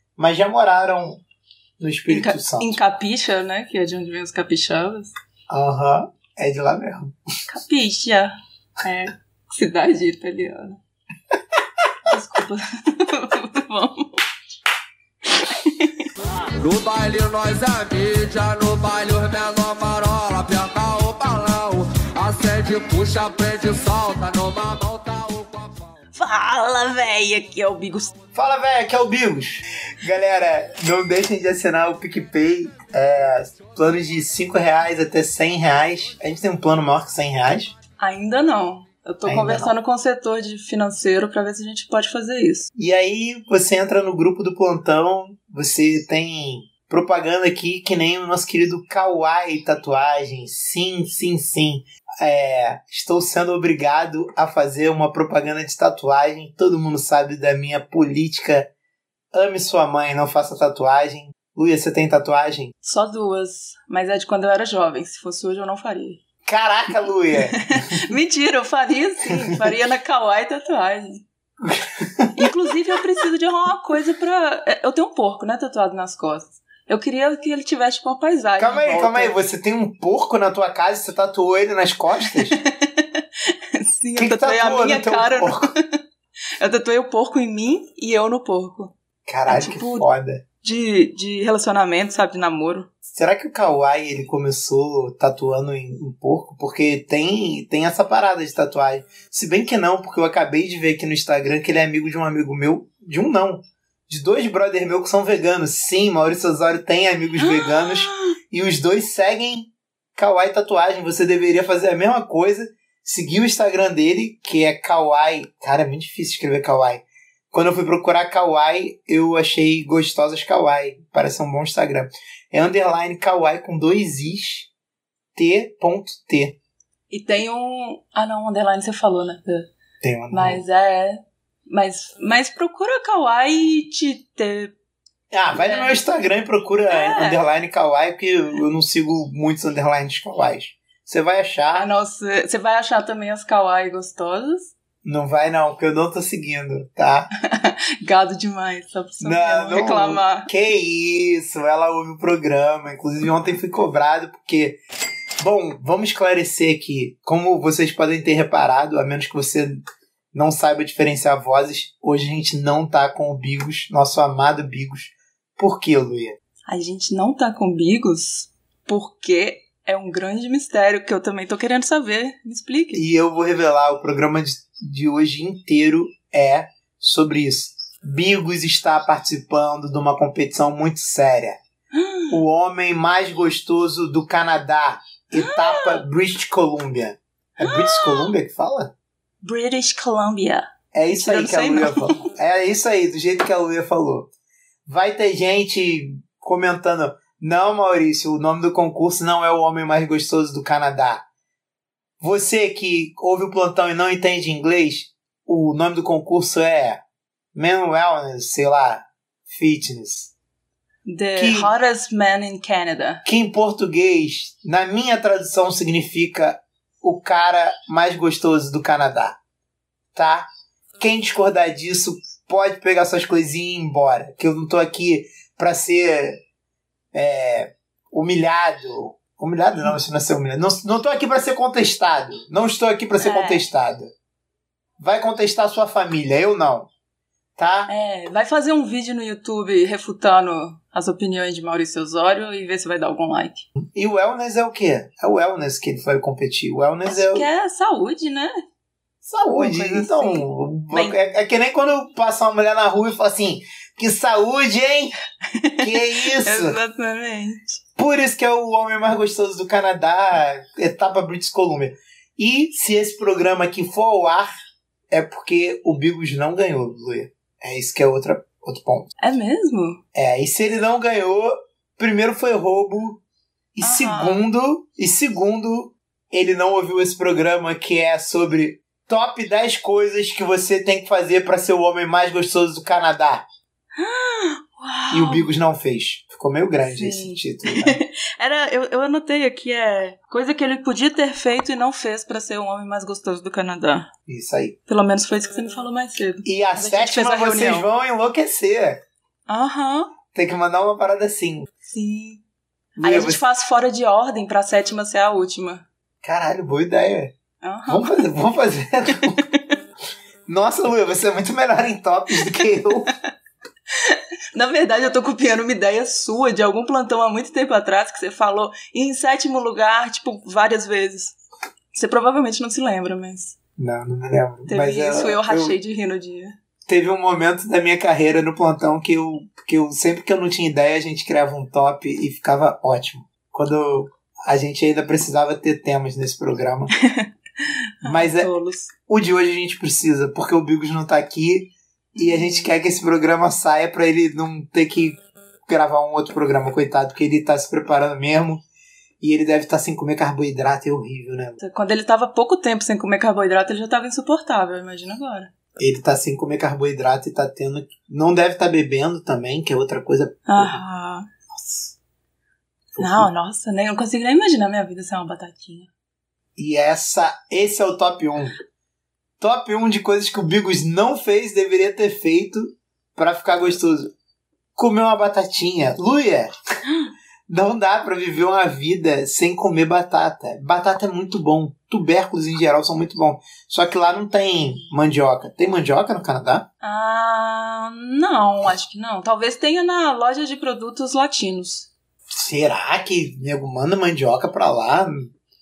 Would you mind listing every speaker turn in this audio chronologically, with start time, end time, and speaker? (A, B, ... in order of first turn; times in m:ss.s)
0:00.2-0:01.2 A
0:01.8-0:02.8 A
0:02.1-0:05.1 B
0:05.5-0:07.1 A
0:07.5-0:10.8 B
0:12.1-0:14.2 B
0:15.4-0:16.1 B
0:16.6-0:25.8 C
0:26.1-0:28.1 B
0:28.3-0:37.7 A
0:38.0-0:42.7 B
0:39.2-0:39.7 A
0:42.8-0:58.7 A
0:59.3-1:02.7 A
1:02.8-1:06.2 B
1:06.4-1:08.0 A
1:07.4-1:11.2 B
1:11.6-1:13.0 A
1:12.4-1:19.4 B
1:18.6-1:22.6 A
1:22.2-1:26.0 B
1:24.2-1:25.7 A
1:26.6-1:28.9 B
1:29.3-1:30.4 A
1:29.5-1:30.1 B
1:30.6-1:32.9 B
1:33.0-2:04.7 A
1:47.4-1:48.4 B
2:05.3-2:06.6 A
2:07.1-2:09.7 B
2:10.0-2:10.6 A
2:10.3-2:14.7 B
2:15.3-2:21.9 A
2:15.5-2:16.0 B
2:16.9-2:17.4 B
2:21.7-2:24.7 B
2:25.0-2:27.3 A
2:27.4-2:30.5 B
2:29.2-2:34.8 A
2:35.4-2:39.8 A
2:40.3-2:46.4 A
2:46.7-2:53.0 B
2:52.9-3:01.6 A
3:01.9-3:02.4 B
3:02.3-3:08.9 A
3:05.3-3:06.0 B
3:07.6-3:08.3 B
3:09.4-3:12.3 B
3:10.9-3:14.3 A
3:14.8-3:21.2 A
3:22.2-3:27.0 A
3:27.5-3:30.3 A
3:31.0-3:33.2 B
3:31.4-3:31.7 A
3:33.2-3:39.4 A
3:40.1-3:40.5 A
3:41.0-3:46.4 A
3:47.1-3:54.1 A
3:53.2-3:53.6 B
3:55.0-3:56.9 A
3:57.6-3:57.9 A
3:57.9-4:03.7 B
4:03.9-4:07.5 A
4:07.1-4:08.5 B
4:09.2-4:15.1 A
4:09.5-4:11.2 B
4:15.4-4:17.8 B
4:15.8-4:16.8 A
4:18.0-4:24.5 A
4:25.1-4:29.1 A
4:29.2-4:30.0 B
4:30.1-4:33.2 A
4:33.7-4:43.4 A
4:33.8-4:34.4 B
4:44.0-4:45.5 B
4:45.1-4:48.0 A
4:46.8-4:54.1 B
4:54.3-4:54.8 A
4:54.9-4:57.9 B
4:56.4-4:59.0 A
4:59.5-5:00.1 B
5:00.3-5:01.7 A
5:01.9-5:02.4 B
5:03.0-5:03.4 A
5:03.0-5:05.8 B
5:06.2-5:07.3 A
5:07.6-5:08.2 B
5:07.9-5:09.4 A
5:09.4-5:09.6 B
5:10.5-5:13.1 A
5:12.3-5:13.1 B
5:13.9-5:21.4 B
5:21.9-5:23.6 B
5:23.8-5:25.8 A
5:24.7-5:26.5 B
5:26.9-5:36.9 A
5:37.0-5:38.9 B
5:38.0-5:38.5 A
5:39.1-5:48.6 A
5:42.2-5:42.7 B
5:49.2-5:51.6 A
5:51.6-5:55.5 B
5:55.8-6:00.8 A
6:00.5-6:01.3 B
6:01.5-6:01.9 A
6:02.9-6:03.3 A
6:03.0-6:05.9 B
6:06.6-6:08.6 A
6:09.4-6:14.1 A
6:14.8-6:16.5 A
6:17.5-6:26.6 A
6:26.8-6:31.9 B
6:32.3-6:35.3 A